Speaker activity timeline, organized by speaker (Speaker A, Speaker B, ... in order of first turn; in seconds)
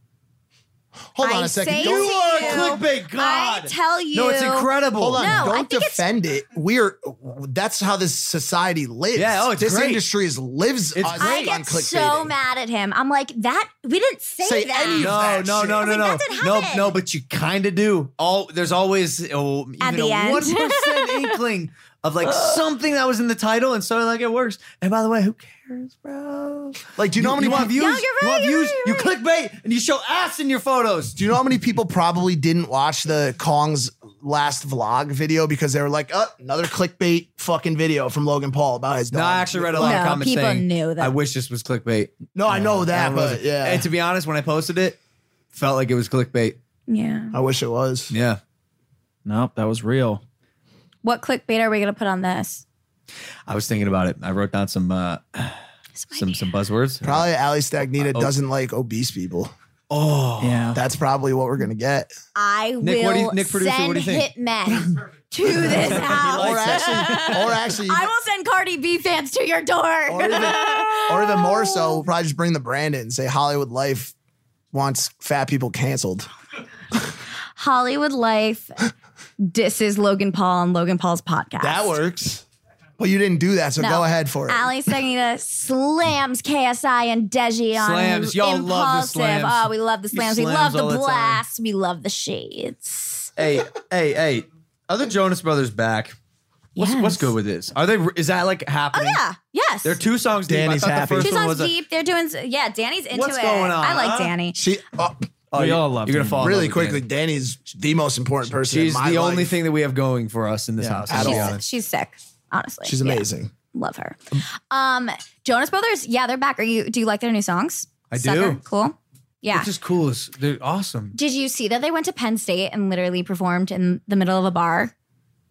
Speaker A: 1.1-2.8, 5.0-12.3, 14.4-16.0, 27.0-27.7, 31.1-40.2, 42.3-43.9, 47.3-48.1, 57.0-59.5, 60.7-62.1, 65.7-68.1, 70.1-74.1, 74.7-76.3, 81.6-82.4, 83.0-84.7, 100.5-101.3, 104.5-105.2, 106.4-109.5, 111.1-111.6, 112.8-113.5
Speaker B: 1.2-6.0, 11.2-15.1, 15.8-16.9, 19.8-21.4, 22.2-22.6, 27.4-29.1, 39.8-41.1, 46.9-47.3, 51.0-52.6, 56.0-56.4, 62.3-72.0, 77.6-78.9, 79.4-82.0, 83.8-93.3, 96.8-97.3, 98.9-100.0, 101.2-104.6, 111.2-119.7, 121.1-124.9
Speaker C: 1.8-5.5, 9.1-10.0, 10.9-11.5, 15.0-31.2, 39.1-42.1, 42.9-45.0, 45.5-46.6, 48.1-48.4, 53.5-55.6, 56.1-57.2, 59.9-60.7, 62.8-64.3, 65.6-67.3, 87.8-91.4, 93.4-96.1, 96.8-99.2, 99.8-101.7, 103.1-104.3, 105.5-107.0, 108.6-111.6, 118.1-118.6, 119.5-121.2
Speaker D: 42.5-42.8, 49.2-50.2, 60.4-60.8, 66.4-66.8, 105.5-106.5, 110.8-111.2